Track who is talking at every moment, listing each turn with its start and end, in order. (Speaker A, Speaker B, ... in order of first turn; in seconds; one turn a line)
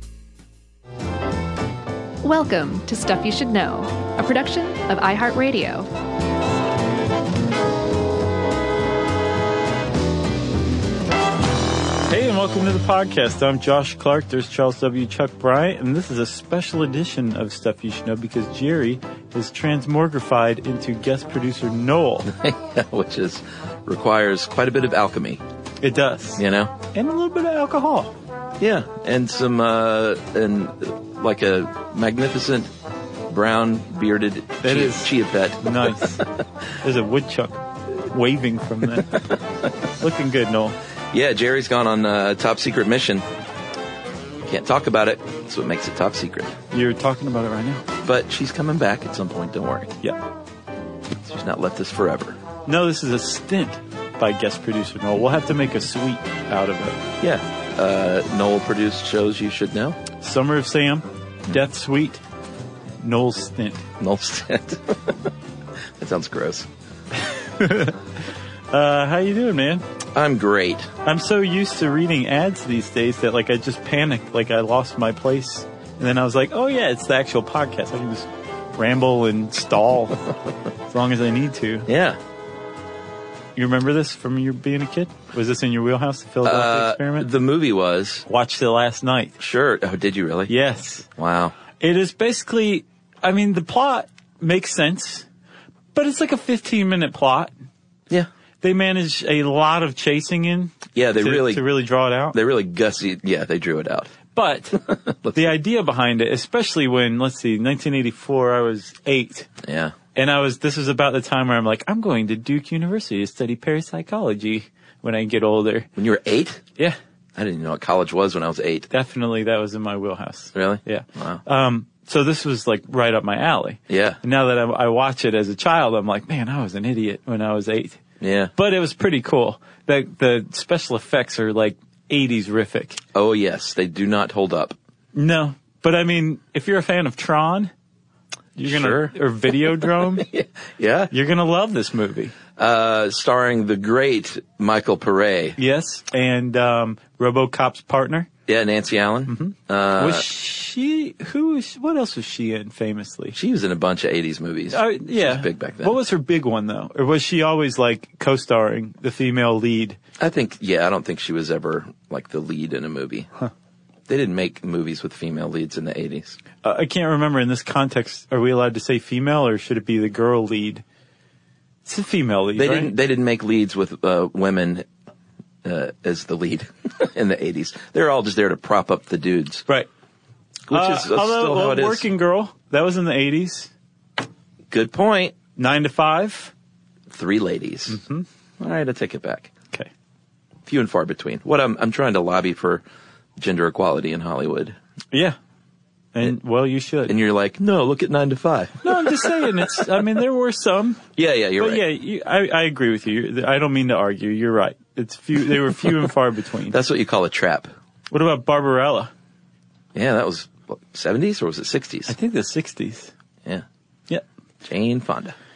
Speaker A: 2.2-5.9
Speaker B: 12.1-22.3
Speaker C: 22.3-25.4
Speaker B: 25.8-28.1
Speaker C: 26.4-26.7
Speaker C: 28.6-32.7
Speaker C: 33.3-35.6
Speaker B: 34.6-36.2
Speaker B: 36.8-39.2
Speaker B: 40.0-40.8
Speaker C: 41.1-43.2
Speaker C: 44.5-46.5
Speaker B: 46.7-47.8
Speaker C: 48.0-50.0
Speaker C: 51.2-52.4
Speaker B: 52.7-57.0
Speaker C: 57.2-60.0
Speaker B: 60.2-62.2
Speaker B: 63.0-63.9
Speaker C: 64.0-65.2
Speaker C: 66.0-66.7
Speaker B: 67.2-68.0
Speaker B: 68.7-69.8
Speaker C: 70.1-70.9
Speaker B: 71.0-80.3
Speaker B: 80.9-81.9
Speaker C: 81.9-82.2
Speaker B: 83.6-87.3
Speaker C: 86.4-88.3
Speaker B: 88.3-89.3
Speaker C: 89.4-90.5
Speaker B: 90.5-91.1
Speaker C: 91.2-91.5
Speaker B: 91.8-95.3
Speaker B: 96.0-97.5
Speaker B: 98.6-102.4
Speaker C: 101.0-101.6
Speaker C: 102.3-104.1
Speaker B: 104.3-104.8
Speaker C: 104.8-105.5
Speaker B: 105.3-109.5
Speaker C: 109.6-110.0
Speaker B: 110.2-115.9
Speaker C: 116.0-116.6
Speaker C: 117.3-118.9
Speaker B: 118.9-128.0
Speaker C: 120.5-121.4
Speaker C: 123.9-124.2
Speaker C: 128.2-128.5
Speaker B: 128.6-133.0
Speaker C: 133.2-134.8
Speaker B: 135.2-137.7
Speaker B: 138.6-140.3
Speaker C: 138.7-139.1
Speaker C: 140.2-141.1
Speaker B: 141.1-142.3
Speaker C: 142.6-145.6
Speaker B: 145.6-148.3
Speaker C: 148.5-150.2
Speaker B: 149.3-153.4
Speaker C: 153.3-156.0
Speaker B: 154.7-160.0
Speaker C: 160.2-163.3
Speaker C: 164.1-166.4
Speaker B: 166.6-170.8
Speaker B: 171.9-172.9
Speaker C: 172.6-174.9
Speaker C: 175.6-179.7
Speaker C: 180.7-182.1
Speaker B: 180.7-183.7
Speaker C: 184.7-185.3
Speaker B: 185.6-186.5
Speaker C: 187.1-188.0
Speaker B: 187.9-188.2
Speaker C: 188.6-189.5
Speaker C: 190.7-192.8
Speaker C: 193.4-194.8
Speaker B: 195.1-195.4
Speaker B: 196.1-197.2
Speaker C: 197.1-199.3
Speaker B: 198.8-201.0
Speaker C: 201.2-201.8
Speaker B: 201.6-206.8
Speaker C: 206.7-207.7
Speaker B: 208.1-209.1
Speaker C: 209.9-212.1
Speaker B: 212.1-213.1
Speaker C: 214.6-215.4